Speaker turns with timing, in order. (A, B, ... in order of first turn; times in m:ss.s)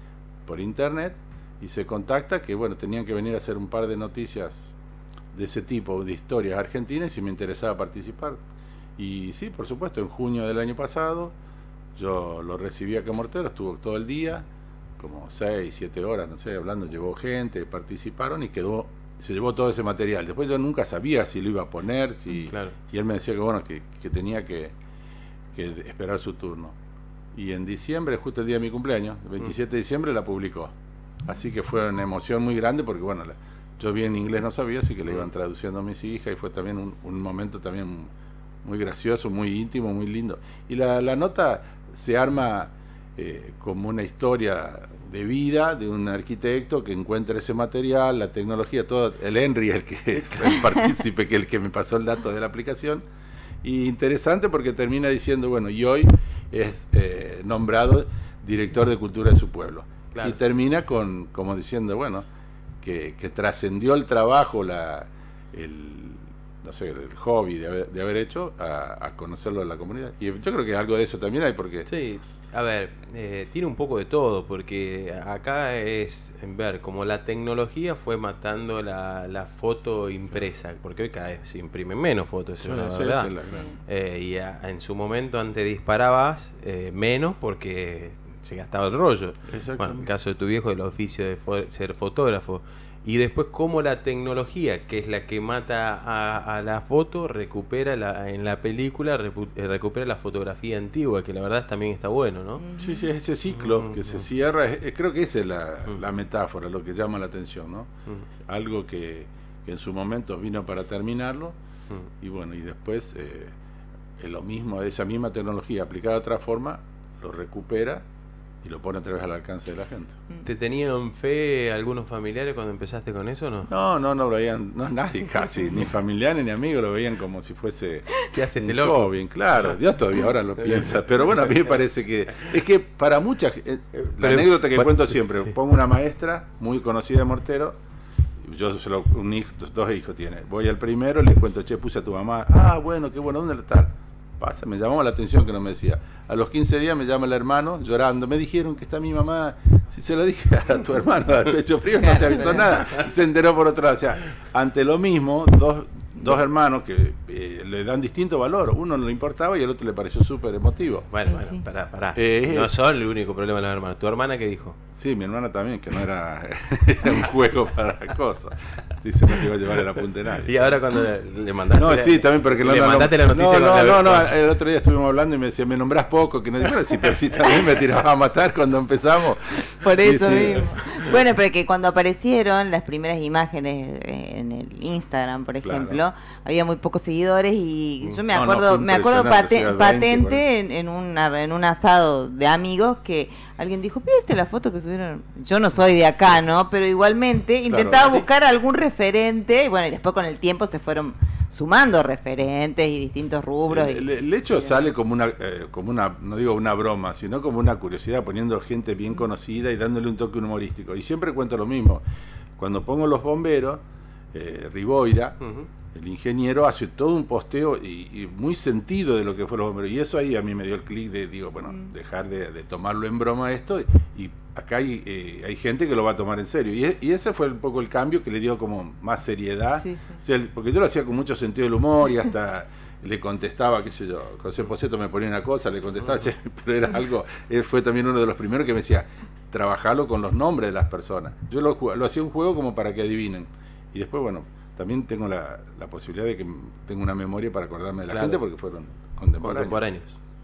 0:00.5-0:04.7 A
0:05.3-0:08.4 A
0:09.0-0:11.3 A
0:12.0-0:14.4 A
0:15.0-0:24.7 A
0:22.5-0:22.7 B
0:25.5-0:26.8 A
0:27.3-0:30.7 A
0:31.2-0:38.1 A
0:38.6-0:53.0 A
0:50.2-0:50.6 B
0:53.6-1:02.3 A
1:02.8-1:11.9 A
1:11.9-1:42.6 B
1:22.6-1:23.6 A
1:23.4-1:23.7 C
1:29.5-1:30.1 A
1:42.6-1:43.1 C
1:42.8-1:47.9 A
1:43.5-1:44.2 B
1:48.4-1:51.6 A
1:52.2-1:53.6 A
1:54.2-1:58.0 A
1:58.6-2:00.2 A
2:00.4-2:03.7 B
2:03.7-2:17.8 A
2:08.3-2:09.8 B
2:10.7-2:11.6 B
2:14.0-2:15.5 B
2:18.4-2:41.1 A
2:32.0-2:32.7 C
2:41.1-2:44.8 B
2:41.2-2:41.6 C
2:42.1-2:42.8 A
2:44.9-2:50.8 A
2:50.4-2:54.3 B
2:51.7-3:01.1 A
2:59.8-3:24.8 C
3:05.6-3:06.0 A
3:08.3-3:10.4 A
3:17.7-3:18.3 A
3:23.7-3:32.0 A
3:32.6-3:33.8 A
3:34.3-3:35.4 A
3:35.4-3:35.7 B
3:35.9-4:09.8 A
3:49.8-3:50.2 C
4:08.1-4:08.4 B
4:09.4-4:10.2 B